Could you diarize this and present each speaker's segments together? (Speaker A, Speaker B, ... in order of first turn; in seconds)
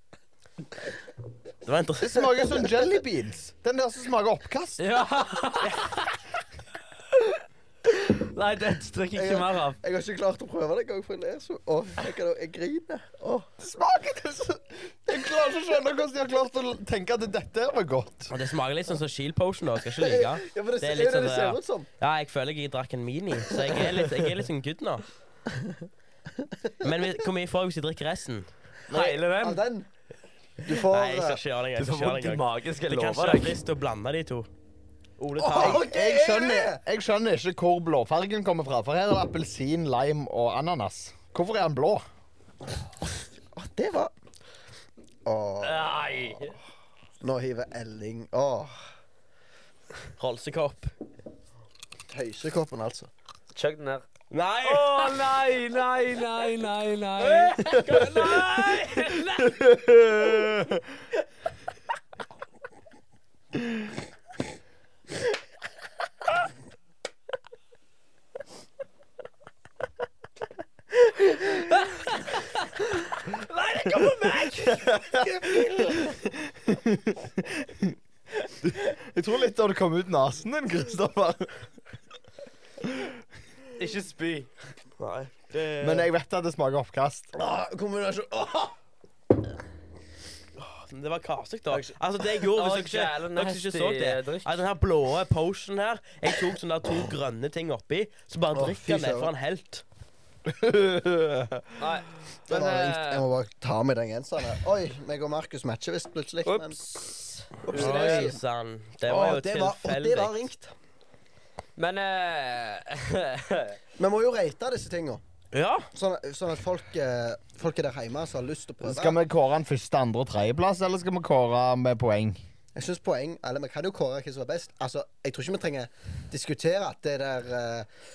Speaker A: 1.6-2.5, 18.3-25.1, 26.8-28.5, 30.7-34.5, 35.2-35.8, 50.2-50.9, 54.3-55.3, 57.2-59.2, 85.0-86.1, 90.6-99.8, 107.7-110.5, 115.5-115.9
Speaker B: 2.0-4.8, 13.6-18.3, 35.6-42.0, 59.8-60.8, 74.7-75.2, 76.6-77.9, 78.6-81.7, 82.8-83.1, 85.8-87.3, 100.6-101.5, 118.8-122.4
Speaker C: 2.6-2.9, 9.1-13.6, 19.9-21.9, 25.6-25.9, 26.4-27.1, 28.9-29.9, 30.6-31.4, 35.4-36.8, 43.5-44.1, 45.2-46.1, 47.2-48.9, 52.1-53.1, 75.7-76.0, 87.3-88.8, 91.7-92.4, 98.5-99.3, 102.5-106.8, 107.6-108.4, 109.0-110.7, 114.0-115.2, 115.9-119.2, 122.7-127.9
Speaker D: 4.8-6.1, 8.0-9.8, 28.9-29.6, 31.8-33.6, 45.6-46.6, 53.5-54.0, 54.6-59.5, 71.9-72.6, 73.2-74.9, 83.8-84.5, 92.5-94.5, 101.8-103.2, 106.4-108.4, 111.8-113.8